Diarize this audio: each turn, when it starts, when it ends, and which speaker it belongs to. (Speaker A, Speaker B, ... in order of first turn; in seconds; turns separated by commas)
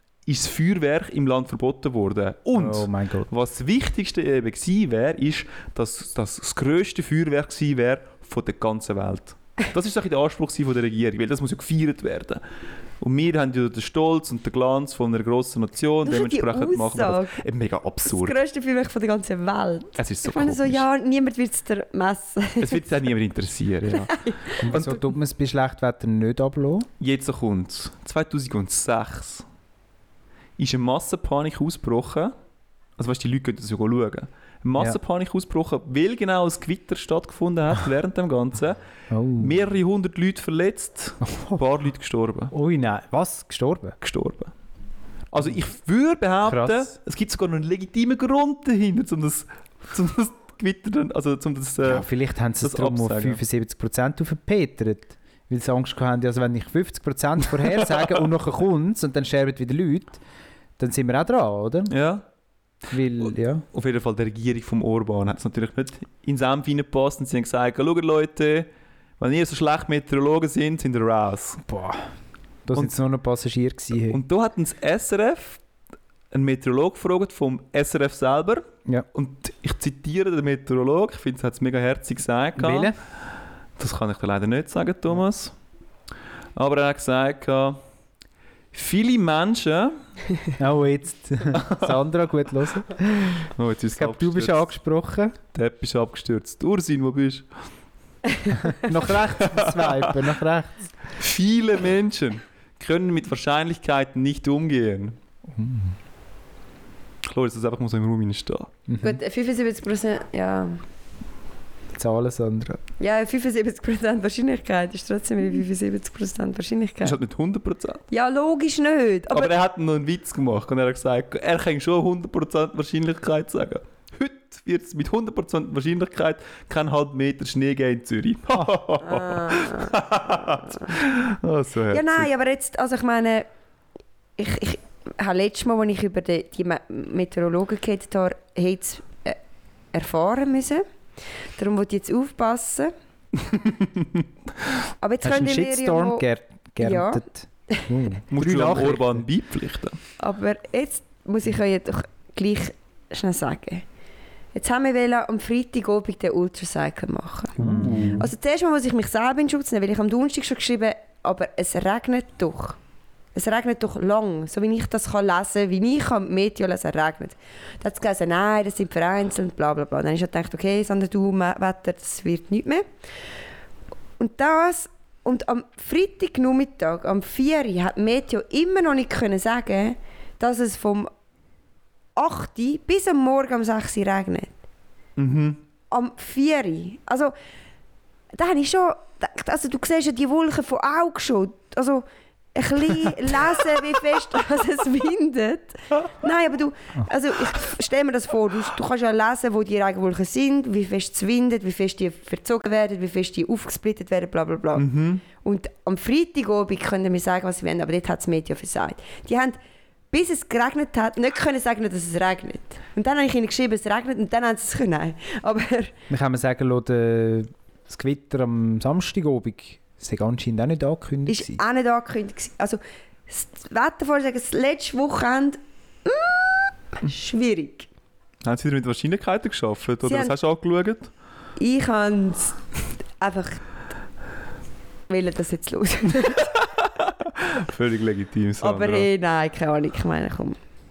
Speaker A: 0.3-12.4, Speaker B: 2.5-3.3, Speaker A: 13.0-18.4, Speaker C: 16.1-17.4, Speaker C: 18.1-22.9, Speaker A: 20.0-20.8, Speaker A: 22.6-25.0, Speaker C: 23.9-24.7, Speaker B: 24.6-26.9, Speaker A: 27.0-29.5, Speaker A: 30.6-32.3, Speaker A: 33.0-38.8, Speaker B: 39.1-39.6, Speaker A: 39.4-42.5, Speaker B: 41.3-41.6, Speaker B: 42.5-44.0, Speaker A: 44.0-44.5, Speaker A: 45.3-52.1, Speaker B: 46.5-46.9, Speaker B: 51.8-60.2, Speaker A: 52.6-53.4, Speaker B: 60.8-61.9, Speaker A: 61.9-62.2, Speaker B: 62.9-63.6, Speaker A: 63.7-68.7, Speaker A: 69.2-71.6, Speaker B: 71.7-72.1, Speaker B: 72.7-74.2, Speaker A: 74.1-75.6, Speaker A: 76.3-82.9, Speaker B: 82.6-83.0, Speaker A: 83.8-85.5, Speaker A: 86.6-87.8, Speaker A: 88.7-90.0, Speaker B: 90.6-95.3, Speaker A: 91.5-91.9, Speaker A: 93.5-94.7, Speaker A: 95.5-97.5, Speaker B: 98.7-100.9, Speaker A: 99.4-100.1, Speaker A: 101.2-105.2, Speaker B: 105.5-106.0, Speaker A: 107.2-108.7, Speaker B: 108.9-109.2, Speaker C: 109.0-110.8, Speaker B: 111.9-112.8, Speaker C: 113.0-117.2, Speaker A: 117.0-118.0, Speaker C: 118.1-119.5, Speaker A: 119.3-132.3, Speaker C: 129.0-129.9, Speaker C: 131.9-133.5, Speaker C: 134.4-139.4, Speaker C: 139.9-140.8, Speaker C: 141.6-142.9, Speaker C: 145.0-146.2, Speaker B: 145.2-149.2, Speaker C: 146.8-147.8, Speaker A: 148.3-150.0, Speaker C: 150.2-153.8, Speaker C: 154.5-162.8, Speaker A: 157.6-158.3, Speaker B: 157.6-158.3, Speaker C: 163.3-172.9, Speaker C: 174.2-181.1, Speaker C: 182.2-184.6, Speaker A: 185.2-185.6, Speaker C: 185.9-187.3, Speaker C: 188.3-209.6, Speaker A: 204.8-205.2, Speaker C: 210.1-215.9, Speaker B: 216.1-221.6, Speaker C: 221.3-227.9, Speaker A: 228.4-231.1, Speaker C: 230.0-230.3, Speaker C: 231.6-232.6, Speaker C: 233.2-233.6, Speaker C: 235.1-236.5, Speaker A: 236.7-239.1, Speaker C: 238.6-240.6